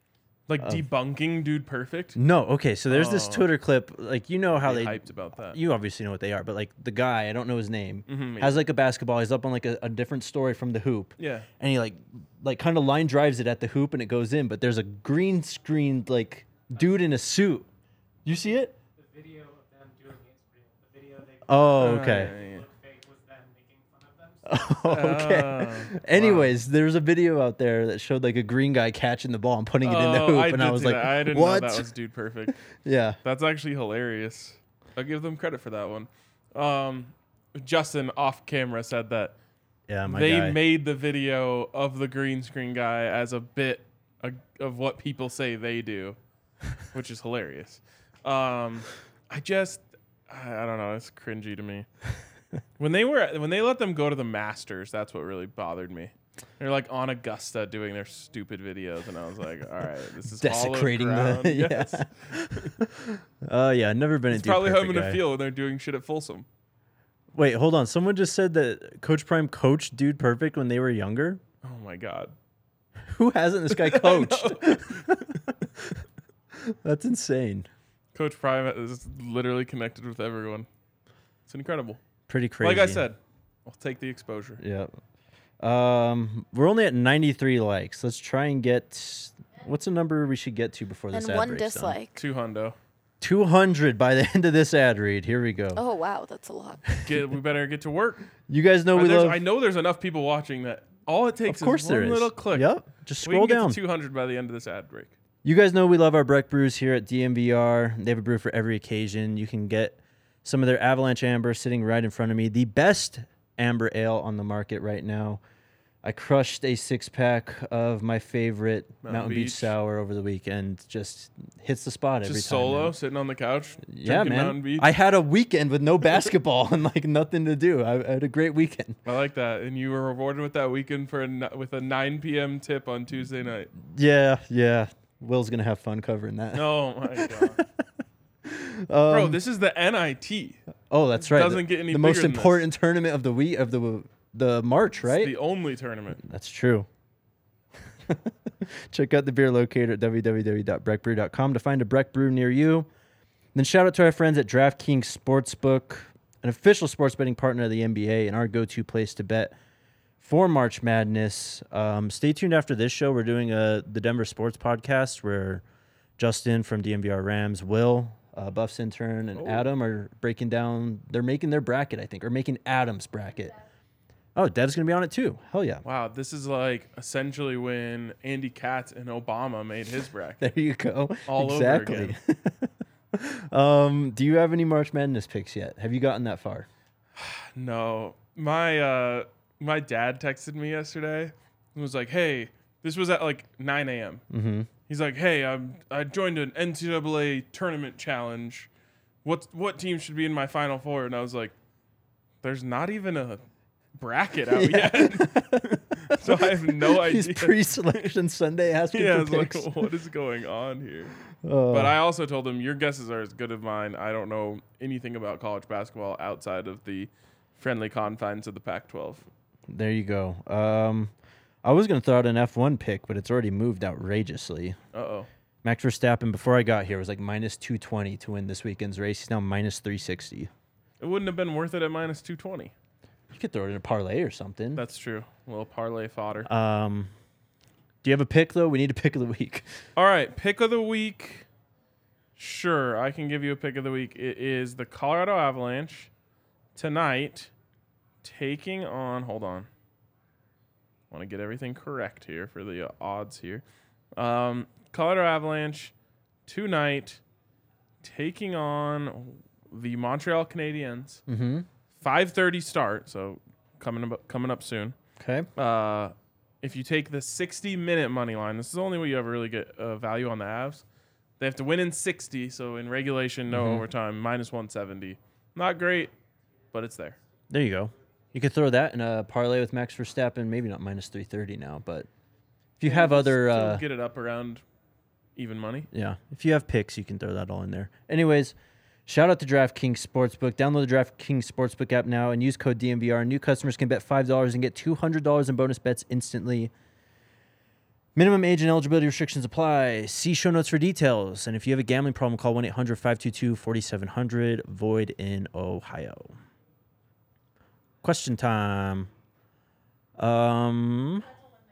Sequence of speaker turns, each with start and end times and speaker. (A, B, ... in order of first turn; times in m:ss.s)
0:00.5-0:02.2 A
0:02.2-0:17.7 B
0:02.9-0:03.5 A
0:04.6-0:05.6 A
0:08.1-0:08.6 A
0:11.2-0:11.5 A
0:18.2-0:18.8 B
0:19.0-0:24.7 C
0:21.5-0:22.4 B
0:21.8-0:22.7 A
0:24.5-0:31.9 B
0:24.9-0:26.5 A
0:29.8-0:32.7 A
0:32.7-0:33.2 B
0:33.2-0:39.3 A
0:39.9-0:40.6 B
0:40.1-0:46.2 A
0:46.9-0:51.9 A
0:52.8-1:02.7 A
1:00.4-1:05.2 B
1:04.3-1:06.5 A
1:07.3-1:11.4 B
1:11.6-1:12.3 A
1:13.1-1:16.0 B
1:13.7-1:15.3 A
1:16.5-1:17.7 B
1:18.2-1:20.7 A
1:21.5-1:22.0 A
1:22.3-1:23.0 B
1:22.6-1:24.6 A
1:24.6-1:24.9 B
1:25.6-1:32.0 B
1:31.1-1:32.2 D
1:32.2-1:32.8 A
1:33.2-1:35.8 B
1:35.8-1:36.8 D
1:37.0-1:38.3 A
1:38.5-1:39.4 B
1:38.9-1:42.7 A
1:41.5-1:43.8 B
1:43.2-1:45.1 A
1:45.4-1:55.4 B
1:56.0-2:03.0 B
1:59.0-1:59.7 A
2:02.2-2:04.9 A
2:03.8-2:09.0 B
2:09.1-2:13.7 A
2:13.8-2:17.8 B
2:16.5-2:17.6 A
2:18.4-2:19.4 B
2:19.1-2:20.6 A
2:20.9-2:25.4 B
2:21.2-2:22.6 A
2:25.0-2:26.2 A
2:26.2-2:26.9 B
2:28.0-2:32.9 B
2:33.6-2:39.6 B
2:40.2-2:45.6 B
2:46.2-2:53.6 B
2:49.4-2:49.7 A
2:54.4-2:55.8 B
2:55.8-3:00.5 A
3:00.4-3:06.7 B
3:01.3-3:02.1 A
3:07.2-3:14.2 A
3:14.3-3:14.7 B
3:14.9-3:18.7 A
3:19.2-3:21.6 A
3:22.4-3:23.4 A
3:24.0-3:28.1 A
3:24.5-3:29.9 B
3:28.9-3:31.2 A
3:31.4-3:32.0 B
3:31.7-3:39.3 A
3:39.7-3:41.1 B
3:41.6-3:44.8 B
3:44.9-3:45.3 A
3:45.6-3:50.5 B
3:51.0-3:52.7 A
3:53.3-3:54.8 B
3:54.8-3:56.5 A
3:56.4-3:57.1 B
3:58.0-3:59.7 B
4:00.0-4:01.5 A
4:02.4-4:06.1 A
4:06.8-4:07.5 A
4:08.2-4:09.7 A
4:11.1-4:13.6 A
4:14.2-4:15.9 A
4:16.5-4:17.2 A
4:18.0-4:21.2 A
4:21.3-4:21.7 B
4:22.0-4:25.0 A
4:25.2-4:25.5 B
4:25.6-4:30.8 A
4:31.4-4:36.1 A
4:33.5-4:33.8 B
4:36.7-4:37.2 A
4:37.5-4:42.1 B
4:42.8-4:43.8 B
4:42.8-4:44.6 A
4:45.4-4:45.9 A
4:45.9-4:48.6 B
4:49.1-4:56.7 B
4:58.2-5:06.4 B
5:08.0-5:09.1 B
5:10.2-5:11.3 B